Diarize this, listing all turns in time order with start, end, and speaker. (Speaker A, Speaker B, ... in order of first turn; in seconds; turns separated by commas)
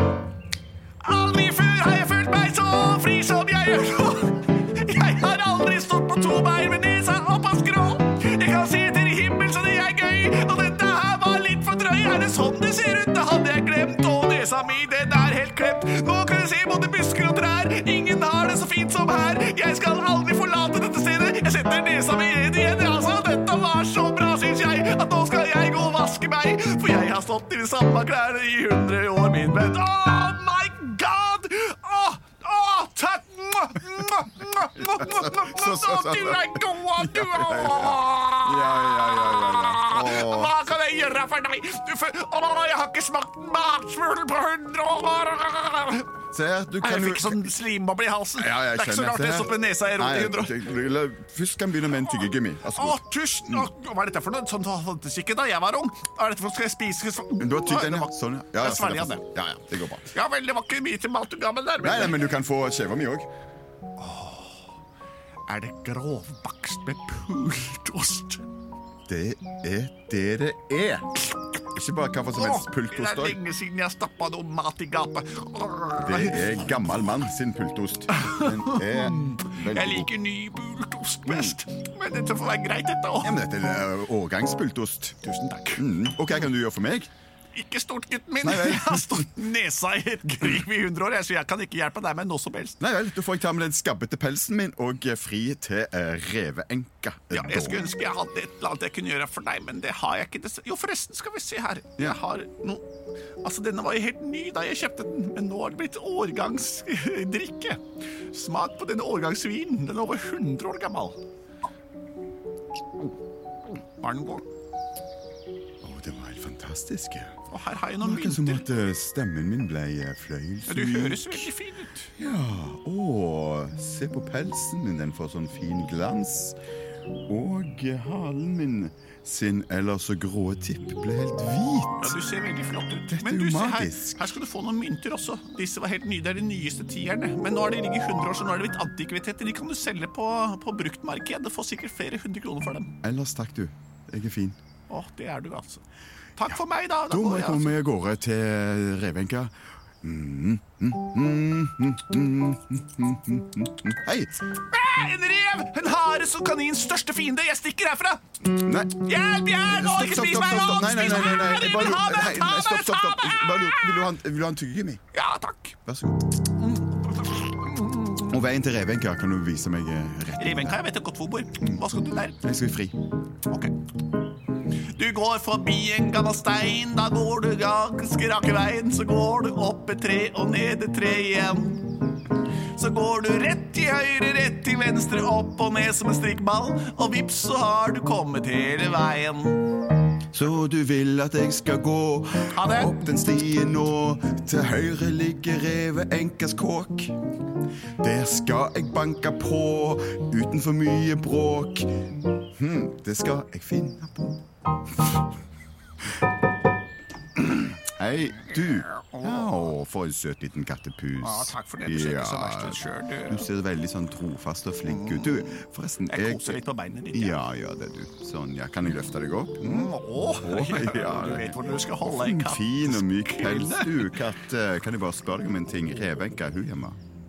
Speaker A: 1.0-46.1, Speaker B: 34.8-40.5, Speaker B: 46.3-47.5, Speaker A: 46.8-50.6, Speaker B: 48.4-53.7, Speaker A: 51.9-59.2, Speaker B: 57.4-60.1, Speaker A: 60.1-62.3, Speaker B: 61.8-63.3, Speaker A: 64.0-64.5, Speaker A: 65.5-68.4, Speaker B: 69.1-71.1, Speaker B: 71.7-73.4, Speaker A: 72.3-77.2, Speaker B: 76.0-80.1, Speaker A: 78.1-83.4, Speaker B: 81.2-81.6, Speaker B: 83.2-85.2, Speaker A: 85.2-85.9, Speaker B: 85.8-87.1, Speaker A: 87.5-92.8, Speaker B: 88.4-89.3, Speaker B: 92.8-97.9, Speaker A: 97.3-102.8, Speaker A: 103.4-111.2, Speaker A: 114.0-114.4, Speaker B: 115.8-117.3, Speaker A: 117.5-118.7, Speaker B: 118.0-121.5, Speaker A: 120.7-122.1, Speaker B: 122.2-126.6, Speaker B: 127.3-132.2, Speaker A: 132.0-142.9, Speaker B: 133.1-134.4, Speaker B: 143.0-144.6, Speaker A: 144.9-145.8, Speaker A: 146.4-147.8, Speaker B: 147.1-154.4, Speaker A: 154.7-164.1, Speaker B: 158.5-159.1, Speaker B: 159.6-165.0, Speaker A: 165.1-165.8, Speaker B: 165.8-166.2, Speaker A: 166.5-168.3, Speaker B: 168.2-170.8, Speaker A: 170.4-172.4, Speaker B: 172.4-173.0, Speaker A: 173.5-173.7, Speaker A: 174.9-181.9, Speaker A: 182.7-189.7, Speaker B: 190.3-197.1, Speaker A: 192.5-192.9, Speaker B: 198.0-201.9, Speaker B: 202.6-204.4, Speaker B: 207.3-216.6, Speaker A: 208.6-209.7, Speaker A: 211.2-213.5, Speaker A: 214.9-217.4, Speaker B: 217.1-227.0, Speaker A: 219.6-224.2